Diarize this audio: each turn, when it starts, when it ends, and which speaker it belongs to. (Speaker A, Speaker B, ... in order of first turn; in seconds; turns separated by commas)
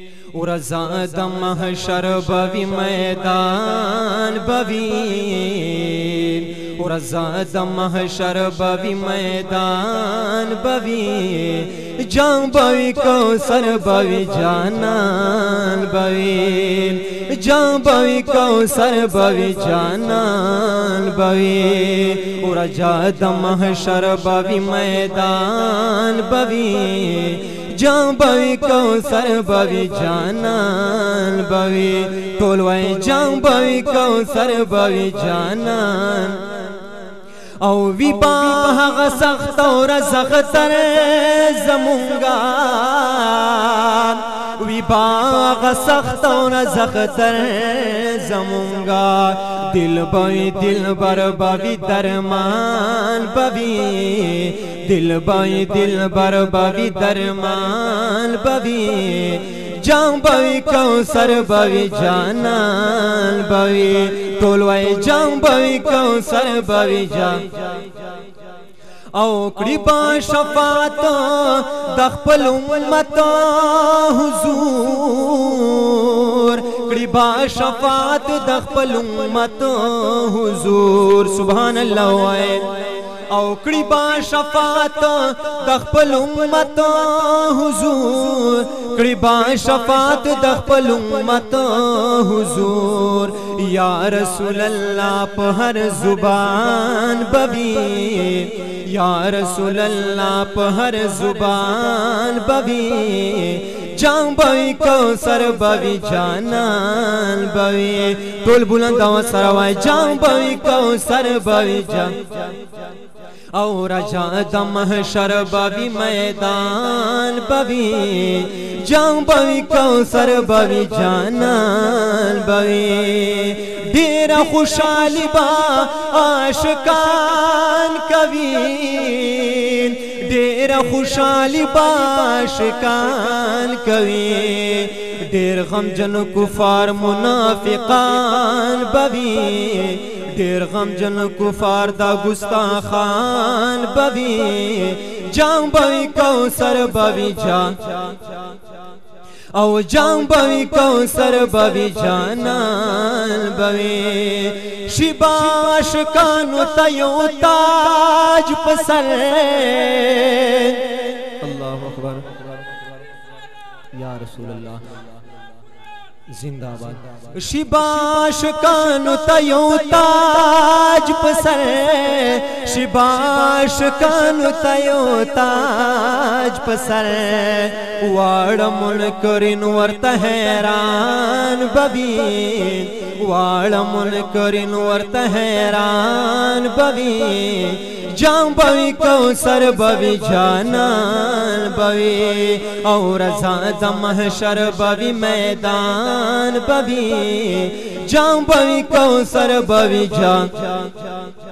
Speaker A: 0.3-36.8, Speaker A: 37.6-68.0, Speaker A: 69.1-112.6, Speaker A: 113.5-148.4, Speaker A: 149.5-162.4, Speaker A: 163.9-165.0, Speaker A: 166.3-201.3